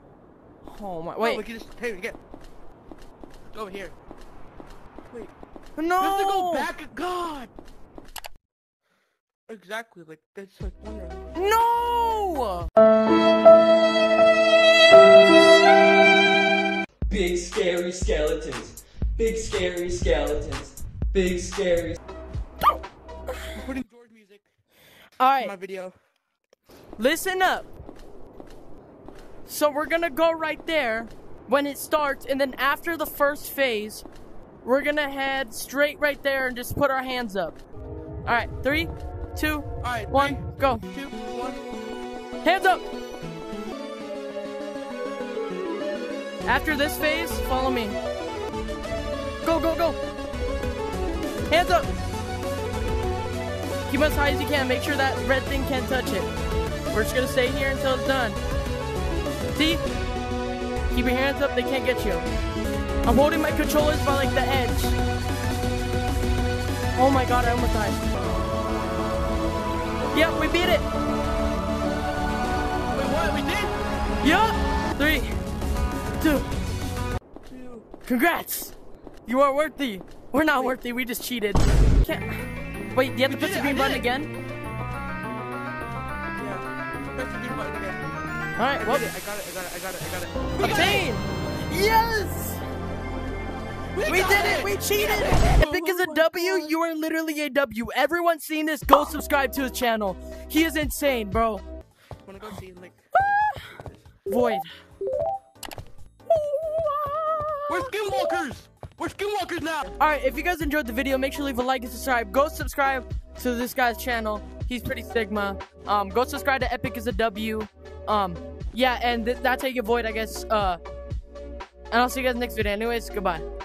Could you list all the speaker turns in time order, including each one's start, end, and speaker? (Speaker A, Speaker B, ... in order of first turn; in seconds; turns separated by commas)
Speaker A: 0.6-1.4, Speaker B: 1.2-2.2, Speaker B: 3.5-3.9, Speaker A: 5.8-6.7, Speaker B: 6.0-7.5, Speaker B: 9.5-11.3, Speaker A: 11.3-12.7, Speaker C: 17.1-22.0, Speaker B: 23.5-24.4, Speaker A: 25.2-25.5, Speaker B: 25.4-25.9, Speaker A: 27.0-27.7, Speaker A: 29.4-34.0, Speaker A: 34.6-37.6, Speaker A: 38.2-40.8, Speaker B: 39.8-41.6, Speaker A: 42.4-42.8, Speaker A: 46.5-48.0, Speaker A: 49.4-50.0, Speaker A: 51.5-51.9, Speaker A: 53.9-56.3, Speaker A: 56.9-58.4, Speaker A: 59.5-59.8, Speaker A: 60.9-62.3, Speaker A: 63.0-65.0, Speaker A: 66.9-68.0, Speaker A: 70.1-70.8, Speaker B: 72.9-73.8, Speaker A: 74.2-75.3, Speaker A: 76.2-76.6, Speaker B: 77.4-77.9, Speaker A: 78.0-78.7, Speaker A: 79.2-84.3, Speaker B: 83.3-84.0, Speaker B: 86.4-88.0, Speaker A: 88.6-89.0, Speaker B: 88.8-91.0, Speaker A: 90.6-92.6, Speaker B: 93.9-96.7, Speaker A: 94.0-101.6, Speaker B: 102.2-103.0, Speaker A: 103.1-104.7, Speaker A: 106.3-107.9, Speaker B: 107.7-110.0, Speaker A: 110.0-120.8, Speaker A: 121.9-123.5